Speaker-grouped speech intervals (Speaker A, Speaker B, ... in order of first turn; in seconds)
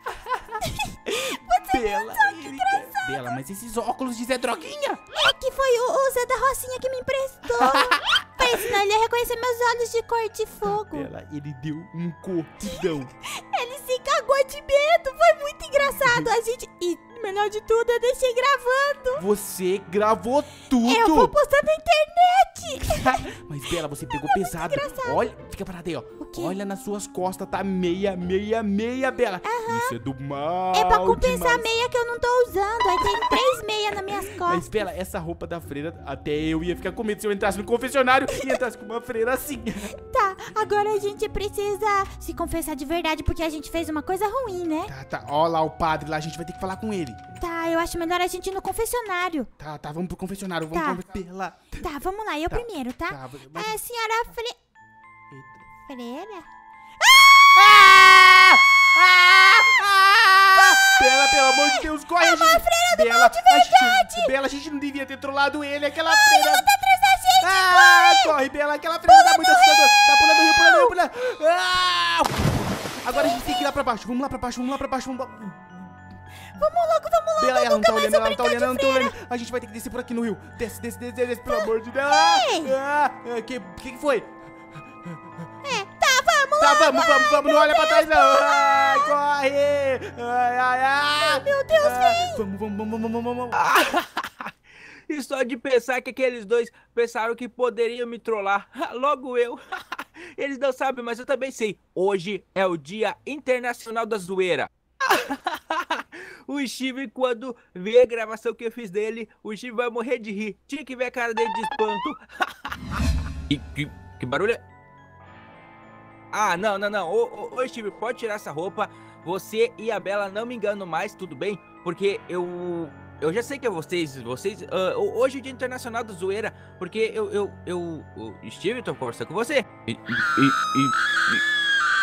Speaker A: 0.1-5.0, 7.5-8.7, 10.6-13.1, 16.0-16.3, 19.2-21.4, 22.9-31.7, 33.1-33.6, 34.4-39.9, 44.9-47.2, 49.6-51.8, 52.5-53.8, 55.3-55.6, 57.5-66.7, 67.4-75.7, 77.4-84.3, 86.6-93.7
Speaker B: 0.6-3.3, 5.1-11.1, 12.7-19.2, 20.8-23.3, 24.1-25.2, 26.2-26.5, 29.4-29.9, 30.7-34.7, 40.0-44.9, 47.4-49.5, 50.7-51.0, 51.7-54.6, 55.9-56.5, 57.0-57.8, 60.5-64.3, 66.0-68.4, 69.0-71.0, 76.5-79.2, 81.5-82.8, 85.6-89.2, 91.2-92.4
Speaker C: 93.5-94.5, 95.1-112.7, 113.5-114.6, 116.3-131.4